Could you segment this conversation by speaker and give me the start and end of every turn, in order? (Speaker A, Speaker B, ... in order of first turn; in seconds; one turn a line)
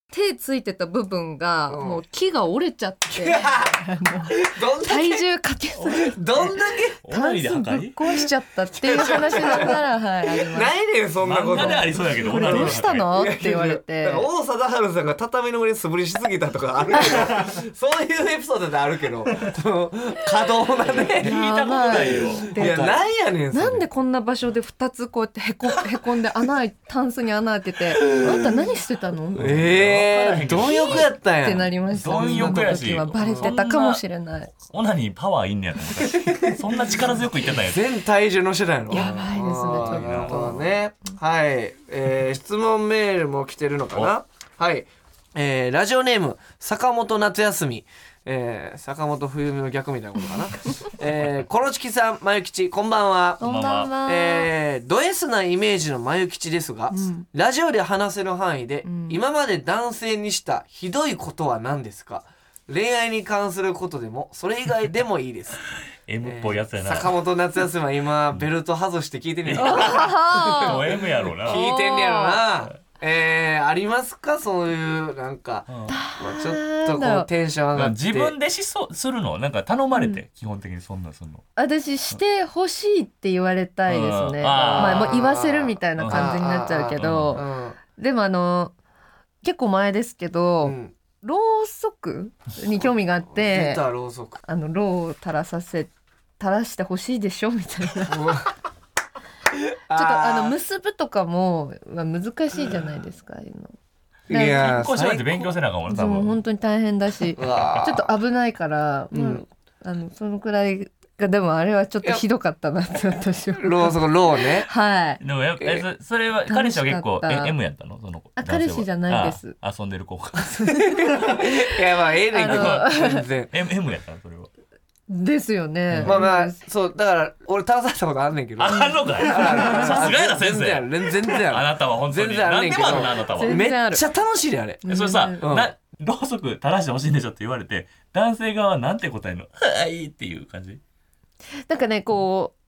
Speaker A: 0.1-6.5
Speaker B: 1.7-2.0
Speaker B: 3.1-5.2
Speaker B: 5.9-7.0
Speaker C: 7.0-8.0
Speaker A: 7.1-10.7
Speaker B: 8.8-21.4
Speaker C: 11.2-13.0
Speaker A: 11.6-14.3
Speaker C: 21.1-23.0
Speaker A: 21.2-22.9
Speaker B: 22.6-23.8
Speaker A: 23.5-29.7
Speaker B: 27.9-28.5
Speaker C: 29.4-31.1
Speaker B: 29.4-33.5
Speaker A: 30.6-34.5
Speaker C: 31.9-34.0
Speaker C: 34.5-37.9
Speaker B: 36.0-36.6
Speaker B: 37.5-65.6
Speaker A: 38.9-40.6
Speaker C: 39.8-40.7
Speaker A: 53.4-54.5
Speaker C: 53.4-53.9
Speaker A: 56.9-57.2
Speaker A: 58.9-59.2
Speaker C: 66.1-67.1
Speaker B: 66.2-70.9
Speaker C: 69.5-71.6
Speaker A: 69.6-70.8
Speaker B: 71.4-78.3
Speaker A: 71.5-72.4
Speaker C: 75.7-76.0
Speaker A: 75.9-77.3
Speaker C: 77.7-81.5
Speaker A: 79.9-80.2
Speaker A: 81.6-88.8
Speaker C: 83.9-85.2
Speaker B: 84.5-87.8
Speaker C: 86.0-86.3
Speaker C: 87.0-87.4
Speaker A: 89.4-93.8
Speaker B: 90.6-90.9
Speaker B: 93.3-94.4
Speaker A: 94.4-98.5
Speaker B: 98.1-98.5
Speaker B: 99.9-100.6
Speaker A: 99.9-103.7
Speaker B: 104.3-105.5
Speaker A: 104.3-104.8
Speaker C: 104.4-106.4
Speaker A: 105.9-114.1
Speaker B: 107.4-108.1
Speaker B: 109.1-109.5
Speaker B: 113.6-114.7
Speaker A: 114.7-115.2
Speaker C: 115.2-121.0
Speaker A: 116.5-117.5
Speaker A: 118.4-119.5
Speaker A: 120.5-121.5
Speaker B: 120.8-123.5
Speaker A: 122.3-123.2
Speaker C: 122.4-124.5
Speaker A: 125.1-126.6
Speaker C: 125.9-126.2
Speaker B: 126.0-135.7
Speaker C: 128.6-133.6
Speaker A: 133.3-134.1
Speaker A: 134.9-135.4
Speaker C: 134.9-140.8
Speaker A: 141.7-142.6